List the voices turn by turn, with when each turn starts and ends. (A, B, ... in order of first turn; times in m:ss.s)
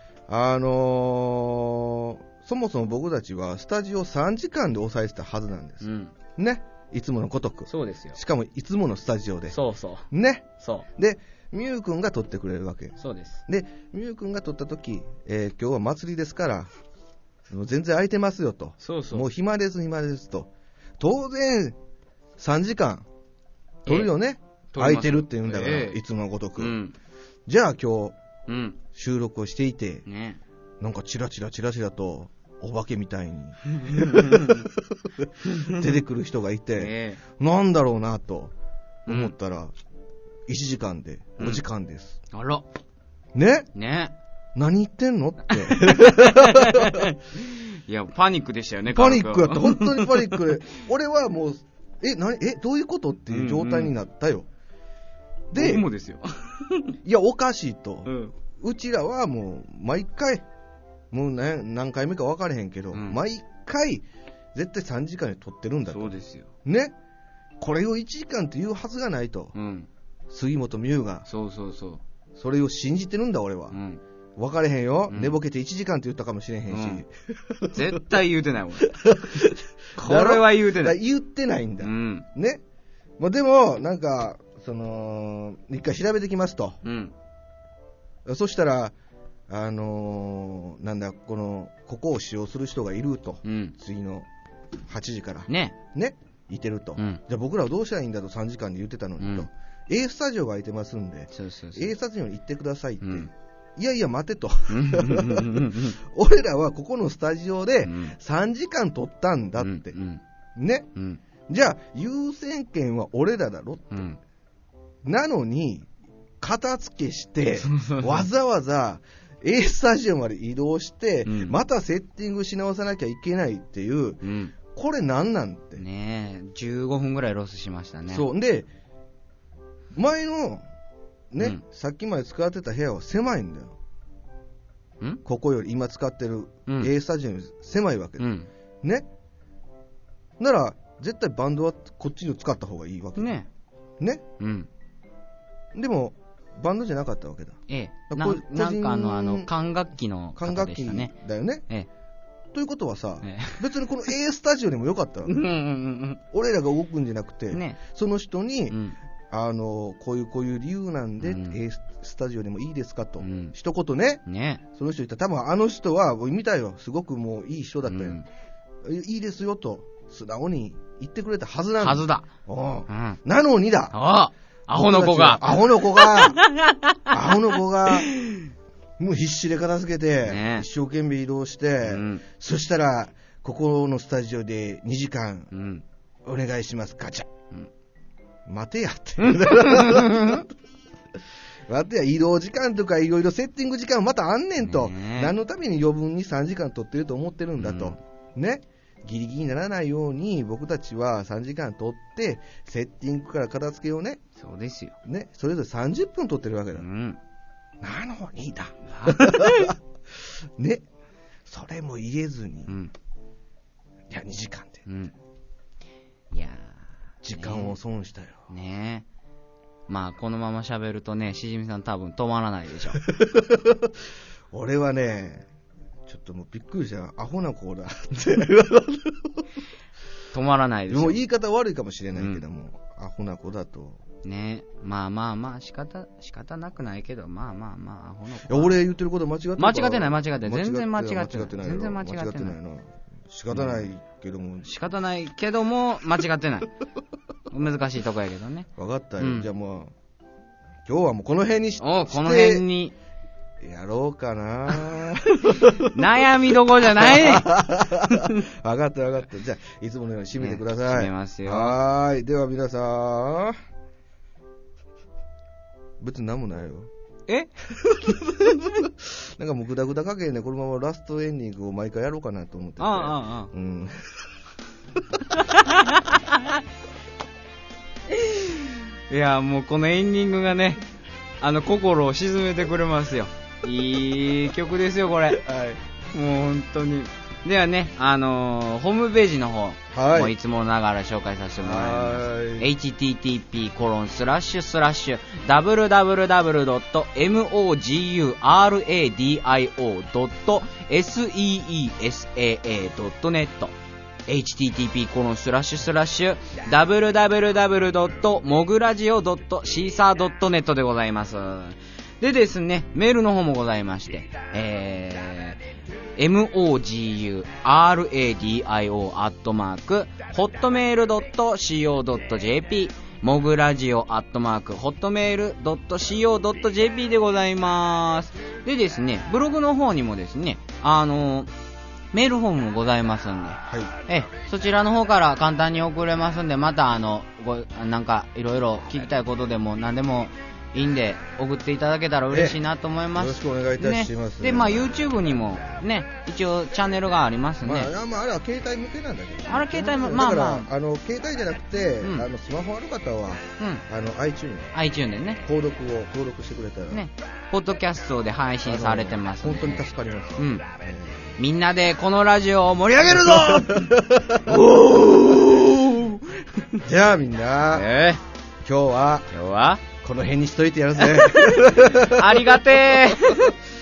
0:00.3-0:09.6 A
0:05.8-0:06.1 B
0:07.7-0:08.2 B
0:09.5-0:10.1 B
0:10.1-0:16.7 A
0:10.6-0:10.8 B
0:13.0-0:13.4 B
0:17.5-0:21.8 A
0:18.8-0:19.2 B
0:22.4-0:23.1 A
0:23.8-0:24.1 B
0:23.8-0:26.8 A
0:24.7-0:26.0 B
0:26.6-0:26.9 B
0:27.5-0:28.2 A
0:28.5-0:28.8 B
0:28.9-0:30.0 A
0:30.0-0:30.4 B
0:30.8-0:38.5 A
0:33.7-0:34.7 B
0:35.4-0:35.8 B
0:36.8-0:37.2 B
0:39.1-0:39.3 B
0:39.1-0:39.7 A
0:40.5-0:42.2 A
0:42.3-0:42.6 B
0:43.3-0:43.7 A
0:43.7-0:44.1 B
0:44.5-0:47.1 A
0:45.7-0:50.4 B
0:48.9-0:54.5 A
0:53.3-0:53.9 B
0:55.5-0:55.9 A
0:55.5-0:56.9 B
0:57.0-1:00.4 A
0:58.0-0:58.3 B
1:01.1-1:06.9 A
1:02.9-1:03.2 B
1:05.9-1:06.5 B
1:07.6-1:09.5 A
1:09.5-1:09.9 B
1:10.3-1:11.2 A
1:11.3-1:12.0 B
1:12.4-1:13.7 A
1:13.7-1:14.0 B
1:14.4-1:18.0 A
1:15.1-1:15.4 B
1:16.7-1:17.0 B
1:17.7-1:19.0 B
1:18.8-1:22.6 A
1:20.0-1:21.0 B
1:21.8-1:22.2 B
1:23.2-1:26.8 A
1:26.8-1:27.1 B
1:28.2-1:28.9 A
1:29.5-1:34.3 A
1:33.4-1:33.7 B
1:34.8-1:50.0 A
1:35.5-1:35.8 B
1:39.2-1:39.5 B
1:41.3-1:41.9 B
1:43.0-1:43.3 B
1:44.7-1:46.0 B
1:47.8-1:48.2 B
1:49.6-1:50.2 B
1:50.6-1:50.9 A
1:50.9-1:51.2 B
1:51.5-1:54.1 A
1:53.9-1:54.2 B
1:55.0-1:55.9 A
1:56.4-2:05.8 A
1:57.7-1:58.2 B
2:01.2-2:01.6 B
2:04.2-2:04.5 B
2:05.8-2:08.2 B
2:08.1-2:08.7 A
2:09.9-2:10.6 A
2:11.3-2:13.7 A
2:15.2-2:18.3 A
2:18.2-2:18.5 B
2:20.4-2:23.4 A
2:23.2-2:23.5 B
2:24.4-2:24.7 B
2:25.7-2:29.5 A
2:27.7-2:31.1 B
2:30.4-2:31.6 A
2:32.5-2:35.4 A
2:33.2-2:33.6 B
2:35.3-2:36.2 B
2:36.3-2:38.8 A
2:37.5-2:37.8 B
2:38.7-2:39.0 B
2:39.3-2:44.2 A
2:41.2-2:41.6 B
2:43.2-2:43.5 B
2:44.2-2:44.6 B
2:44.7-2:48.2 A
2:47.9-2:48.2 B
2:48.8-2:54.0 A
2:51.8-2:52.3 B
2:52.9-2:53.2 B
2:53.9-2:57.1 B
2:54.7-2:56.4 A
2:57.1-2:58.2 A
2:59.0-3:05.5 A
3:00.2-3:00.6 B
3:01.8-3:02.2 B
3:05.5-3:05.8 B
3:06.2-3:07.3 A
3:08.5-3:10.5 A
3:09.2-3:10.4 B
3:11.7-3:24.2 A
3:14.6-3:15.3 B
3:17.6-3:18.0 B
3:24.4-3:24.9 B
3:25.0-3:26.8 A
3:26.8-3:27.2 B
3:27.8-3:30.8 A
3:28.9-3:29.7 B
3:31.4-3:32.7 A
3:32.7-3:32.9 B
3:34.1-3:34.8 A
3:34.8-3:35.1 B
3:36.3-3:36.8 B
3:37.2-3:38.5 A
3:37.4-3:37.8 B
3:38.5-3:39.1 B
3:39.9-3:43.0 B
3:43.0-3:45.5 A
3:46.0-3:49.4 A
3:50.3-3:51.2 B
3:50.9-3:54.0 A
3:52.1-3:52.4 B
3:54.2-3:58.8 B
3:58.5-4:04.7 A
3:59.6-4:02.6 B
4:03.5-4:03.8 B
4:04.6-4:06.7 B
4:07.5-4:08.7 B
4:08.8-4:09.9 A
4:09.2-4:09.5 B
4:10.8-4:12.7 A
4:11.8-4:12.9 B
4:13.6-4:16.0 A
4:15.5-4:17.5 B
4:16.8-4:23.6 A
4:18.1-4:18.4 B
4:20.4-4:21.8 B
4:26.0-4:26.9 A
4:27.8-4:34.1 A
4:28.4-4:28.7 B
4:32.8-4:33.5 B
4:35.3-4:36.6 B
4:38.1-4:40.8 B
4:41.4-4:45.4 B
4:45.3-4:45.8 A
4:46.1-5:03.7 B
4:49.9-4:50.3 A
4:51.6-4:52.7 A
5:04.3-5:15.6 B
5:16.2-5:31.5 B
5:32.1-5:47.9 B
5:42.3-5:42.6 A
5:43.1-5:45.0 A
5:47.6-5:54.7 A
5:49.5-5:50.7 B
5:54.7-5:55.4 B
5:55.4-5:57.0 A
5:56.9-6:00.6 B
5:58.6-6:01.3 A
6:01.4-6:06.2 B
6:03.1-6:04.8 A
6:05.5-6:05.9 A
6:06.8-6:07.9 A
6:07.7-6:08.2 B
6:08.6-6:09.3 A
6:09.3-6:09.8 B
6:10.0-6:13.4 A
6:11.0-6:13.5 B